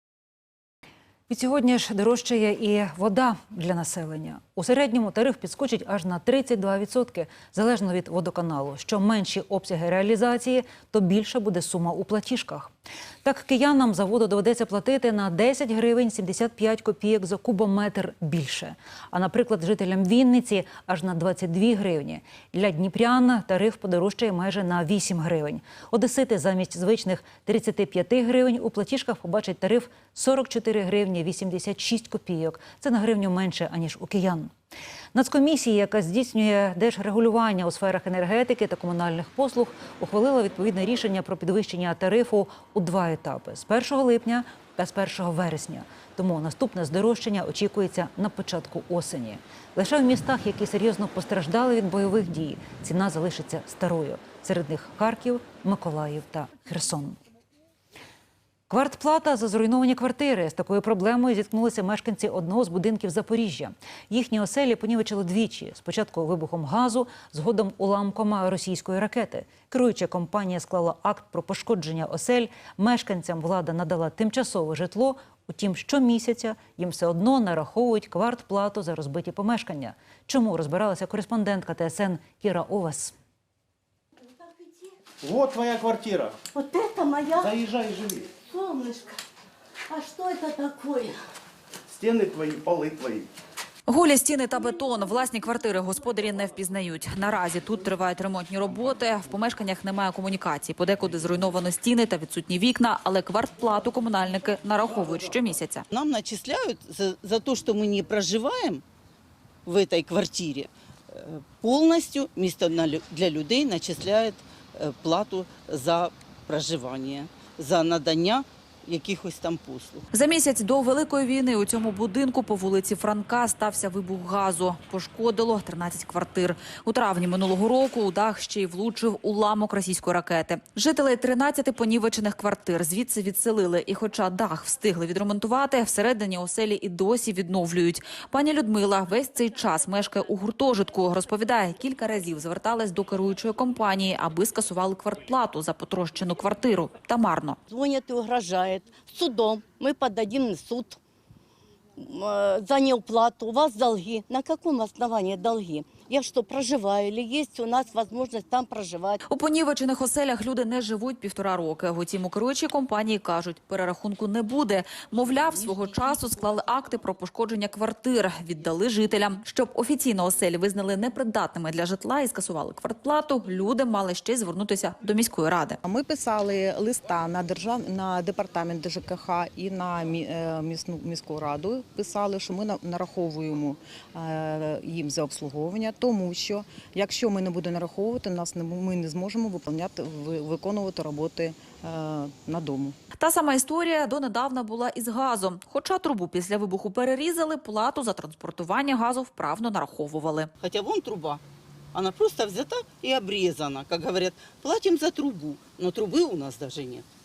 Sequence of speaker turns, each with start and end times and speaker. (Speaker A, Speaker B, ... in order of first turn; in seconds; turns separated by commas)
Speaker A: 1.3-12.7, Speaker A: 13.2-34.5, Speaker A: 35.1-57.2, Speaker A: 58.7-83.1, Speaker B: 85.2-86.3, Speaker C: 86.5-87.5, Speaker B: 87.3-88.3, Speaker C: 88.5-89.2, Speaker C: 89.9-91.2, Speaker B: 91.9-93.3, Speaker D: 93.9-105.9, Speaker E: 105.9-108.8, Speaker E: 109.7-120.1, Speaker D: 120.1-147.6, Speaker C: 147.7-151.0, Speaker C: 152.0-159.2, Speaker D: 159.3-175.8, Speaker F: 175.8-193.0, Speaker D: 193.2-200.5, Speaker E: 200.6-201.4, Speaker E: 201.9-207.1